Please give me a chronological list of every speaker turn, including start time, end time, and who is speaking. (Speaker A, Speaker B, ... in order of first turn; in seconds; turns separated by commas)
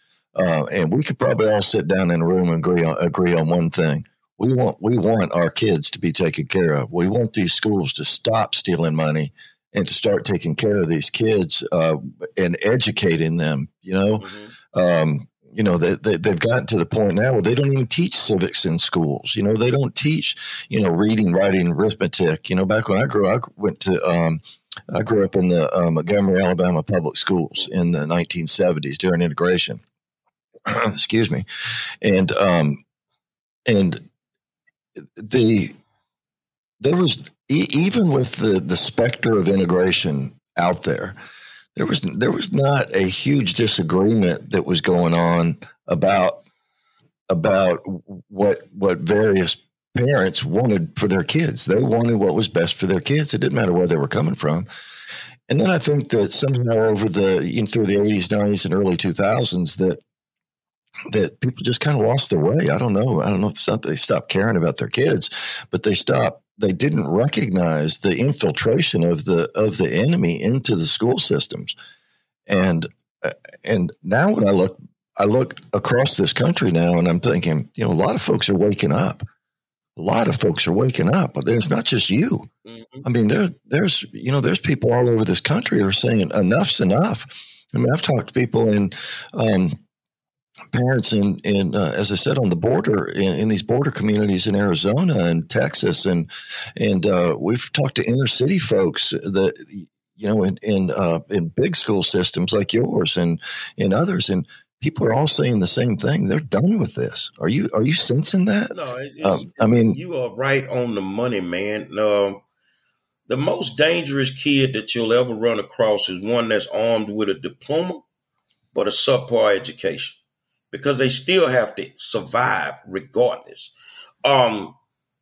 Speaker A: 0.4-29.8, Speaker B: 14.2-14.5, Speaker A: 30.7-31.4, Speaker A: 32.0-32.8, Speaker A: 33.7-34.0, Speaker A: 35.0-35.8, Speaker A: 36.8-41.2, Speaker A: 41.8-46.4, Speaker A: 47.3-54.7, Speaker A: 55.5-60.0, Speaker A: 61.1-71.8, Speaker A: 72.5-79.3, Speaker A: 80.0-82.5, Speaker B: 82.7-83.1, Speaker A: 83.0-89.8, Speaker A: 90.7-110.0, Speaker B: 108.7-112.4, Speaker B: 113.3-118.0, Speaker B: 118.7-120.2, Speaker B: 120.7-123.7, Speaker B: 124.2-124.8